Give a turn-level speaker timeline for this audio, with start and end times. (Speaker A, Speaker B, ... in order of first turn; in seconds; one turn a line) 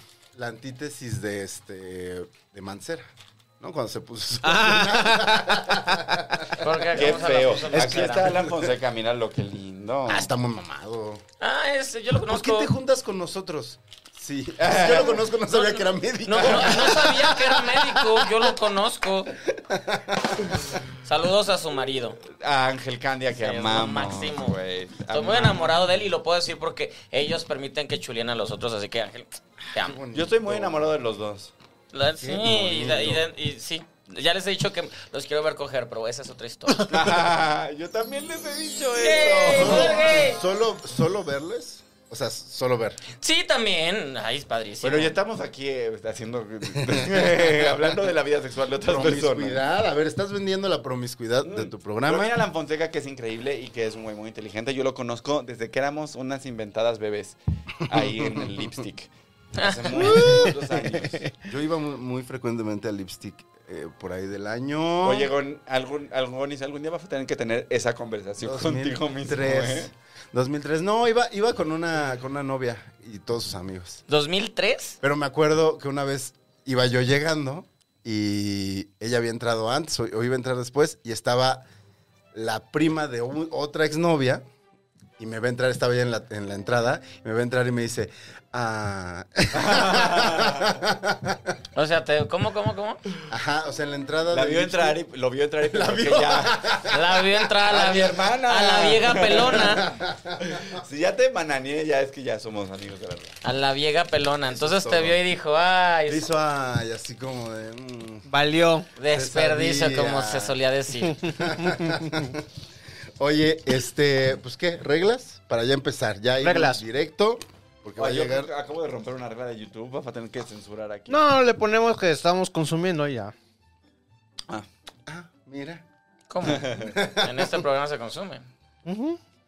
Speaker A: 0.3-7.3
Speaker B: 4.4-5.4
Speaker C: 6.6-8.3
Speaker D: 7.0-10.3
Speaker B: 7.7-8.2
Speaker A: 8.3-8.7
Speaker A: 10.1-11.2
Speaker C: 11.4-12.7
Speaker A: 12.3-18.5
Speaker D: 14.6-15.3
Speaker C: 15.5-19.3
Speaker A: 19.4-20.8
Speaker C: 21.0-22.2
Speaker D: 22.3-25.8
Speaker C: 23.3-24.6
Speaker C: 25.1-30.0
Speaker A: 29.8-30.9
Speaker D: 30.1-31.5
Speaker C: 31.9-36.9
Speaker A: 32.2-33.2
Speaker D: 36.9-40.0
Speaker C: 39.0-40.4
Speaker A: 39.4-43.0
Speaker C: 43.2-45.1
Speaker D: 44.8-49.6
Speaker A: 46.8-47.7
Speaker A: 48.9-52.4
Speaker D: 51.4-61.2
Speaker A: 57.9-58.8
Speaker C: 59.6-60.0
Speaker A: 59.9-65.3
Speaker B: 60.0-61.0
Speaker D: 65.0-69.9
Speaker A: 68.4-74.0
Speaker C: 74.1-75.0
Speaker A: 75.0-81.7
Speaker A: 82.3-84.4
Speaker A: 85.2-91.5
Speaker D: 89.5-90.8
Speaker C: 91.8-93.0
Speaker A: 93.3-95.0
Speaker D: 94.3-96.8
Speaker A: 95.6-97.4
Speaker C: 96.9-99.8
Speaker D: 97.7-99.8
Speaker A: 99.4-100.6
Speaker D: 100.4-103.4
Speaker C: 103.4-106.3
Speaker A: 104.5-105.2
Speaker A: 106.1-108.3
Speaker B: 108.3-108.9
Speaker C: 109.0-111.3
Speaker A: 109.1-110.6
Speaker A: 111.2-112.5
Speaker B: 111.6-111.9
Speaker A: 113.2-118.5
Speaker B: 116.4-116.8
Speaker D: 118.0-121.2
Speaker B: 121.1-123.3
Speaker A: 125.1-125.8
Speaker C: 126.3-128.5
Speaker D: 126.5-126.9
Speaker A: 126.8-127.6
Speaker B: 128.9-129.2